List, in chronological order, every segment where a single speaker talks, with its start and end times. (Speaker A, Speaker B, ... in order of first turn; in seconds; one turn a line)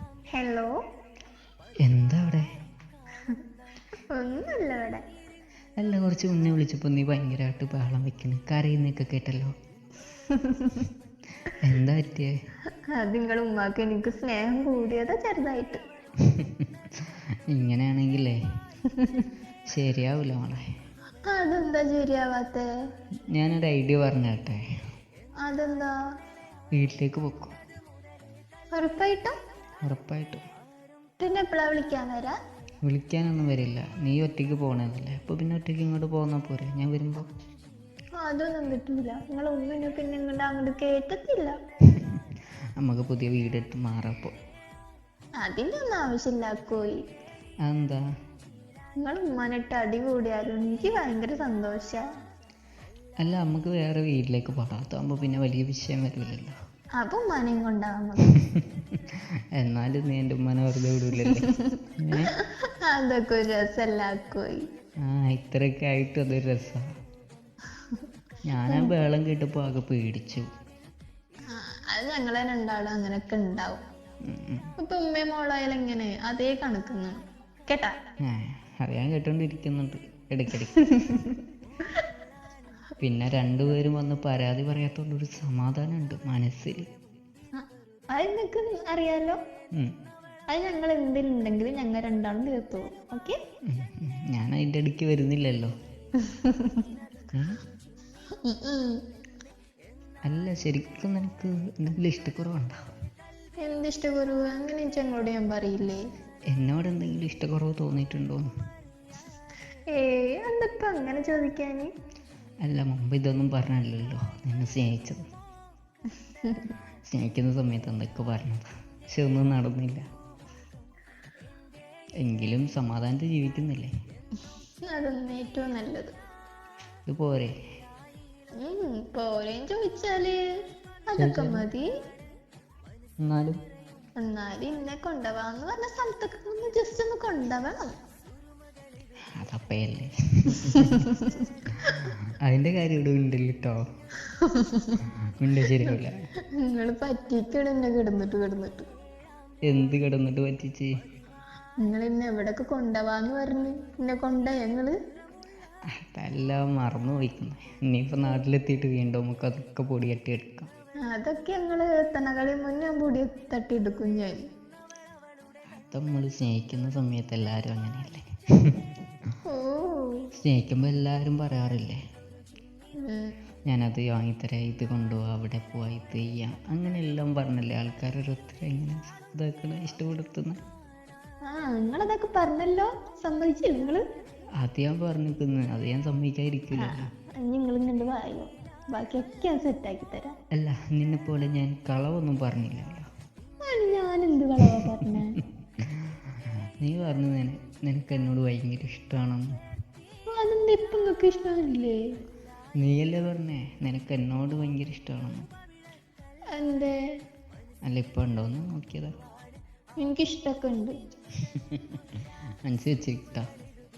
Speaker A: 0.3-0.7
Speaker B: 1.8-2.5
Speaker A: 4.2-5.0
Speaker B: 5.8-9.5
Speaker A: 10.3-10.9
Speaker B: 11.6-12.3
Speaker A: 12.9-15.8
Speaker B: 16.3-18.4
Speaker A: 18.9-19.3
Speaker B: 19.7-20.6
Speaker A: 21.3-22.6
Speaker B: 23.3-24.6
Speaker A: 25.4-25.9
Speaker B: 26.8-27.6
Speaker A: 28.7-29.3
Speaker B: 29.8-30.4
Speaker A: 31.2-32.3
Speaker B: 32.9-37.3
Speaker A: 38.2-41.5
Speaker B: 42.8-44.3
Speaker A: 45.4-47.0
Speaker B: 47.6-48.0
Speaker A: 49.0-52.0
Speaker B: 53.2-56.5
Speaker A: 57.0-58.3
Speaker B: 59.5-62.3
Speaker A: 61.2-61.8
Speaker A: 62.4-64.6
Speaker B: 65.0-66.8
Speaker B: 68.5-70.5
Speaker A: 71.5-73.8
Speaker B: 74.3-74.7
Speaker A: 74.8-77.9
Speaker B: 78.2-80.8
Speaker A: 80.7-81.4
Speaker B: 83.0-86.9
Speaker A: 87.6-89.4
Speaker A: 90.5-93.3
Speaker B: 93.7-95.7
Speaker A: 96.2-96.9
Speaker B: 97.3-97.6
Speaker A: 98.4-99.0
Speaker B: 100.3-102.8
Speaker A: 103.6-106.0
Speaker B: 106.5-108.4
Speaker A: 109.9-111.9
Speaker B: 112.6-115.2
Speaker A: 116.4-116.7
Speaker B: 117.1-120.0
Speaker B: 122.2-123.9
Speaker A: 124.9-126.1
Speaker B: 127.1-127.5
Speaker A: 128.6-130.4
Speaker A: 131.1-131.8
Speaker B: 131.2-131.6
Speaker B: 133.2-133.6
Speaker A: 134.2-137.9
Speaker B: 139.3-141.0
Speaker A: 140.5-141.9
Speaker B: 141.9-143.8
Speaker A: 144.3-145.0
Speaker B: 145.4-146.2
Speaker A: 146.6-148.9
Speaker B: 149.7-150.9
Speaker A: 151.8-154.9
Speaker B: 155.9-160.7
Speaker A: 161.1-164.4
Speaker B: 165.7-168.7
Speaker A: 169.5-170.1
Speaker B: 170.4-172.0
Speaker A: 173.0-173.3
Speaker B: 173.7-180.6
Speaker A: 181.5-184.0
Speaker B: 184.6-187.1
Speaker A: 186.8-190.3
Speaker B: 190.5-193.1
Speaker A: 193.6-195.3
Speaker B: 196.8-199.4
Speaker A: 200.3-201.9
Speaker B: 202.8-205.4
Speaker A: 206.5-206.9
Speaker B: 207.8-209.1
Speaker A: 210.0-210.9
Speaker B: 211.5-213.4